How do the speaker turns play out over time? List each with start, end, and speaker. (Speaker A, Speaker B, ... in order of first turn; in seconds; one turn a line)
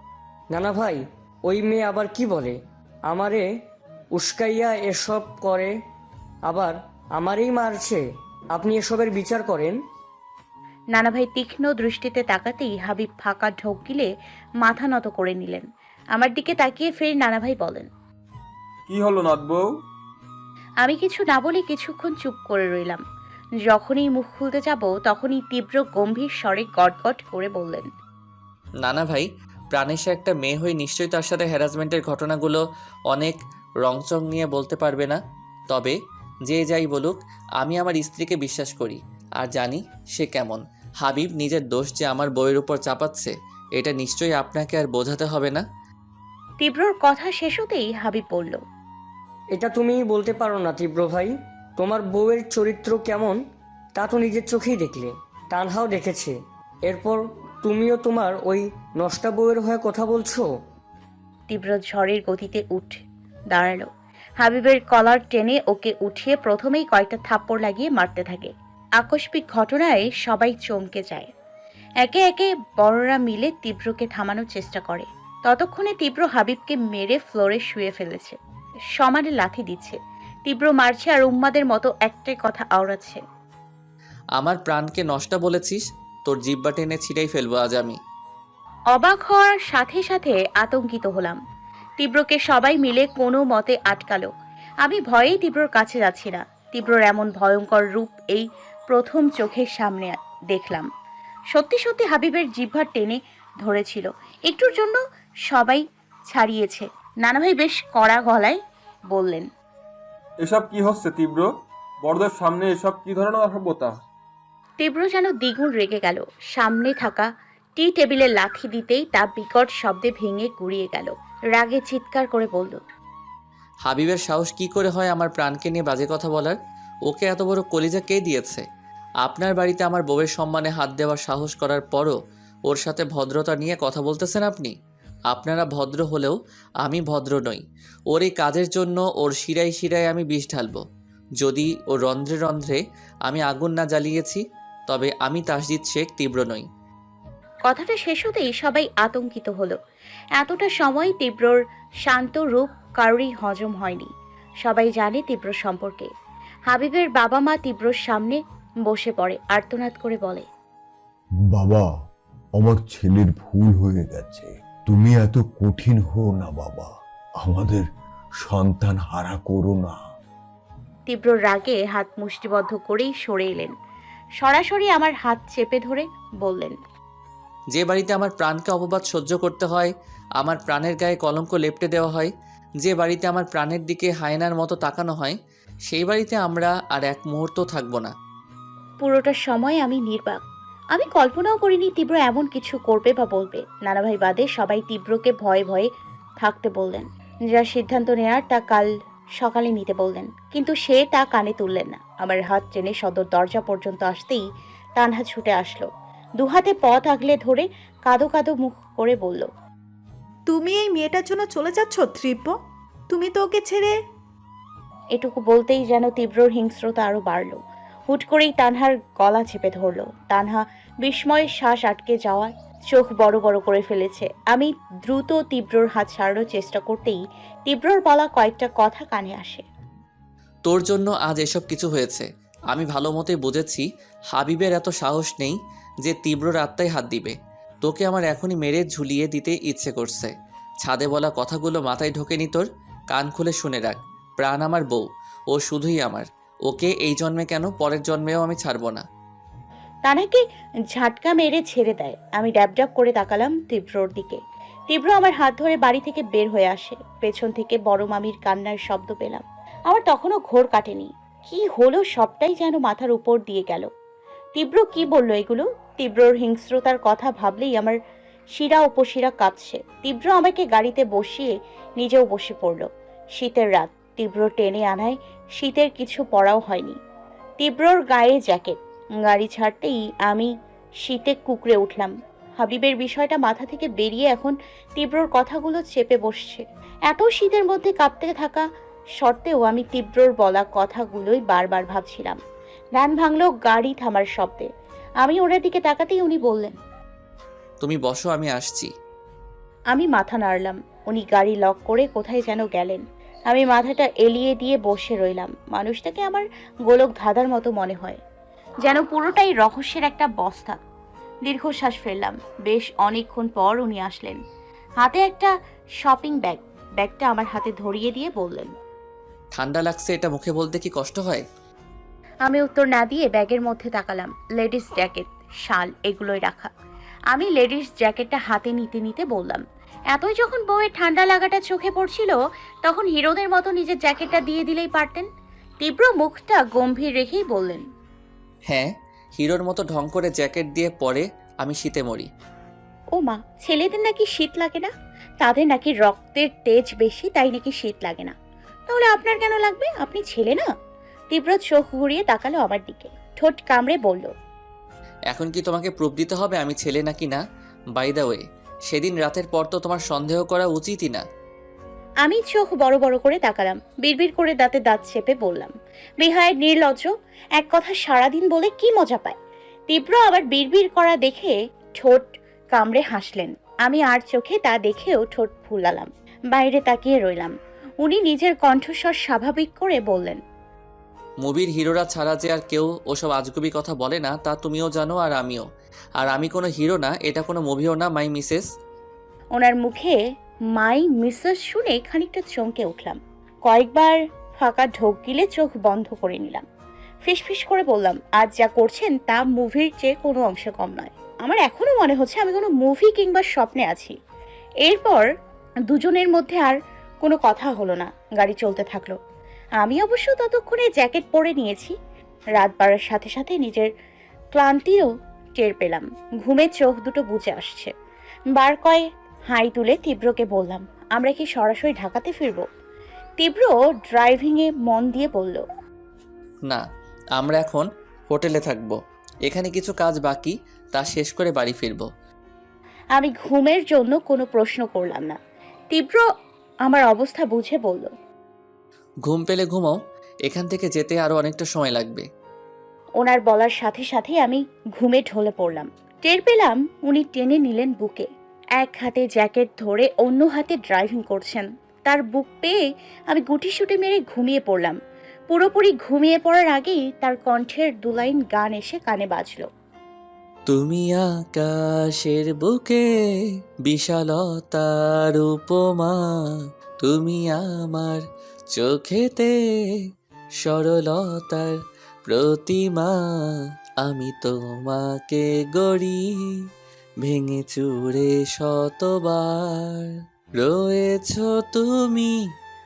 Speaker A: 0.5-3.5
Speaker A: 4.1-5.8
Speaker A: 6.5-9.8
Speaker B: 10.9-14.1
Speaker B: 14.6-15.6
Speaker B: 16.1-17.9
Speaker C: 18.9-19.7
Speaker B: 20.8-23.0
Speaker B: 23.7-27.9
Speaker D: 28.8-32.6
Speaker D: 33.1-35.2
Speaker D: 36.5-45.6
Speaker B: 46.6-48.6
Speaker A: 49.5-53.4
Speaker A: 54.0-60.5
Speaker B: 61.5-63.9
Speaker B: 64.4-71.3
Speaker B: 72.0-78.4
Speaker B: 79.0-83.2
Speaker D: 84.4-88.0
Speaker B: 88.9-91.4
Speaker B: 92.0-94.3
Speaker B: 94.8-100.9
Speaker B: 101.5-105.0
Speaker B: 105.5-108.6
Speaker B: 109.1-109.5
Speaker C: 110.4-114.0
Speaker B: 114.8-122.8
Speaker D: 123.9-126.6
Speaker D: 127.1-128.6
Speaker D: 129.2-132.2
Speaker D: 132.7-134.7
Speaker D: 135.3-140.8
Speaker D: 141.4-146.6
Speaker B: 147.7-149.8
Speaker B: 150.4-154.1
Speaker B: 154.6-156.1
Speaker B: 156.7-160.4
Speaker E: 161.5-161.9
Speaker E: 162.6-167.9
Speaker E: 168.4-170.0
Speaker B: 171.1-173.7
Speaker B: 174.4-176.8
Speaker D: 177.7-182.3
Speaker D: 182.8-185.3
Speaker D: 185.9-188.1
Speaker B: 189.0-190.4
Speaker B: 190.9-195.9
Speaker B: 196.4-204.4
Speaker B: 205.0-209.5
Speaker F: 210.5-212.6
Speaker F: 213.1-214.0
Speaker B: 215.2-229.7
Speaker D: 230.7-240.3
Speaker D: 240.8-249.0
Speaker B: 250.1-250.4
Speaker B: 250.9-254.4
Speaker B: 254.9-263.9
Speaker B: 264.6-268.0
Speaker B: 268.6-277.0
Speaker B: 277.6-280.5
Speaker B: 281.1-288.6
Speaker B: 289.2-292.4
Speaker B: 293.0-294.7
Speaker B: 295.2-296.8
Speaker D: 297.8-298.9
Speaker B: 299.9-308.2
Speaker B: 308.9-310.8
Speaker B: 311.5-314.4
Speaker B: 315.0-315.5
Speaker B: 316.0-318.7
Speaker D: 319.5-321.4
Speaker B: 322.5-326.7
Speaker B: 327.3-335.3
Speaker B: 335.8-337.8
Speaker D: 338.7-342.3
Speaker B: 343.2-344.9
Speaker B: 345.4-348.4
Speaker B: 348.9-350.6
Speaker B: 351.3-354.3
Speaker D: 355.3-357.4
Speaker D: 358.0-361.2
Speaker B: 362.2-369.4
Speaker B: 369.9-380.4
Speaker D: 381.4-385.6
Speaker D: 386.2-388.6
Speaker B: 389.6-390.2
Speaker B: 390.8-396.6
Speaker B: 397.3-404.2
Speaker B: 404.9-405.3
Speaker B: 405.9-409.2
Speaker B: 409.8-411.9
Speaker B: 412.6-413.9
Speaker B: 414.6-417.9
Speaker B: 418.6-422.7
Speaker B: 423.4-425.6
Speaker D: 427.4-432.1
Speaker B: 433.2-435.4
Speaker B: 435.9-436.2
Speaker B: 436.9-438.1
Speaker D: 439.3-442.3
Speaker B: 443.2-448.3
Speaker B: 448.8-452.8
Speaker B: 453.3-455.0
Speaker B: 455.5-459.7
Speaker D: 460.7-463.0
Speaker D: 463.9-466.5
Speaker D: 467.0-468.2
Speaker D: 468.7-469.5
Speaker D: 470.6-471.8
Speaker D: 472.3-476.5
Speaker D: 477.2-482.3